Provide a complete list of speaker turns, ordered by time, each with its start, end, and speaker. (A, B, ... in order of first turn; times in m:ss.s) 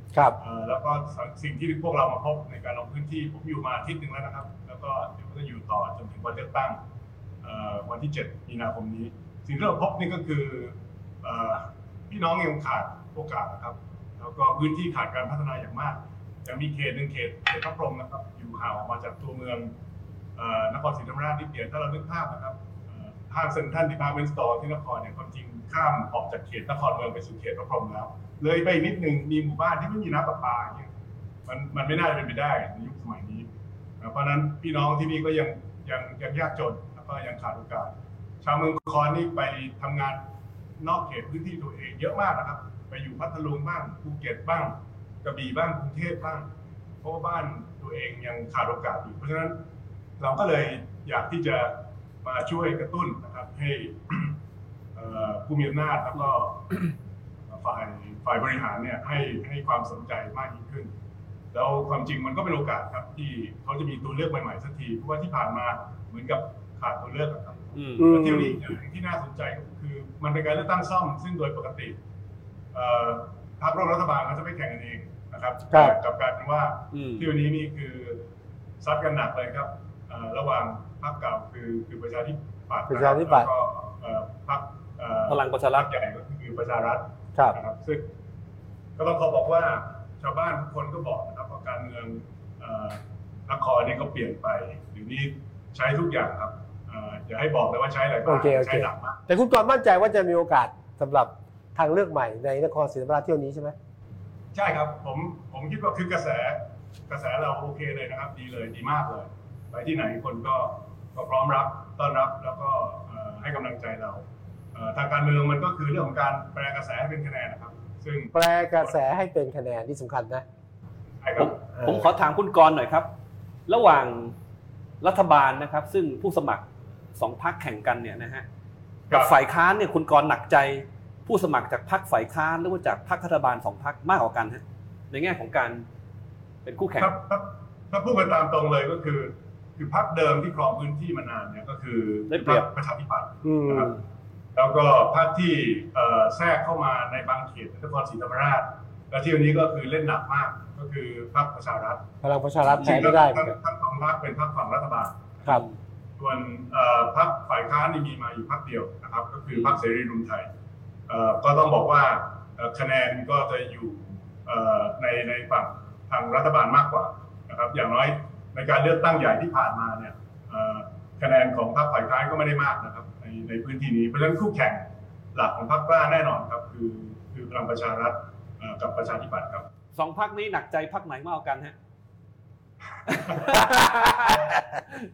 0:00.1-0:00.4 A
0:00.4-0:06.8 B
0:07.4-0:19.7 B
0:20.4-0:30.9 B
0:31.5-0:33.5 B
0:34.0-0:40.2 B
0:40.8-0:46.5 B
0:47.0-0:49.6 B
0:50.2-0:54.4 B
0:55.0-0:57.0 B
0:57.5-1:00.9 B
1:01.5-1:12.0 B
1:07.8-1:08.1 C
1:08.0-1:08.6 A
1:12.7-1:18.2 B
1:16.9-1:17.3 C
1:18.8-1:28.1 B
1:22.9-1:23.5 A
1:25.3-1:25.9 C
1:29.0-1:39.2 B
1:38.3-1:43.8 A
1:44.5-1:54.2 B
1:54.8-1:58.9 B
1:58.3-2:00.4 A
2:01.2-2:01.6 B
2:01.4-2:03.1 C
2:01.7-2:02.1 A
2:03.7-2:04.4 C
2:05.0-2:08.5 C
2:09.1-2:15.9 C
2:16.6-2:17.2 C
2:17.0-2:24.0 B
2:22.3-2:22.7 C
2:23.4-2:24.0 A
2:24.6-2:32.0 B
2:32.2-2:33.6 A
2:32.7-2:35.6 B
2:32.8-2:33.1 C
2:35.5-2:35.7 C
2:36.2-2:40.5 B
2:39.5-2:39.8 C
2:41.1-2:59.7 B
2:59.9-3:01.8 C
3:03.1-3:03.6 B
3:03.1-3:04.3 C
3:03.5-3:04.8 A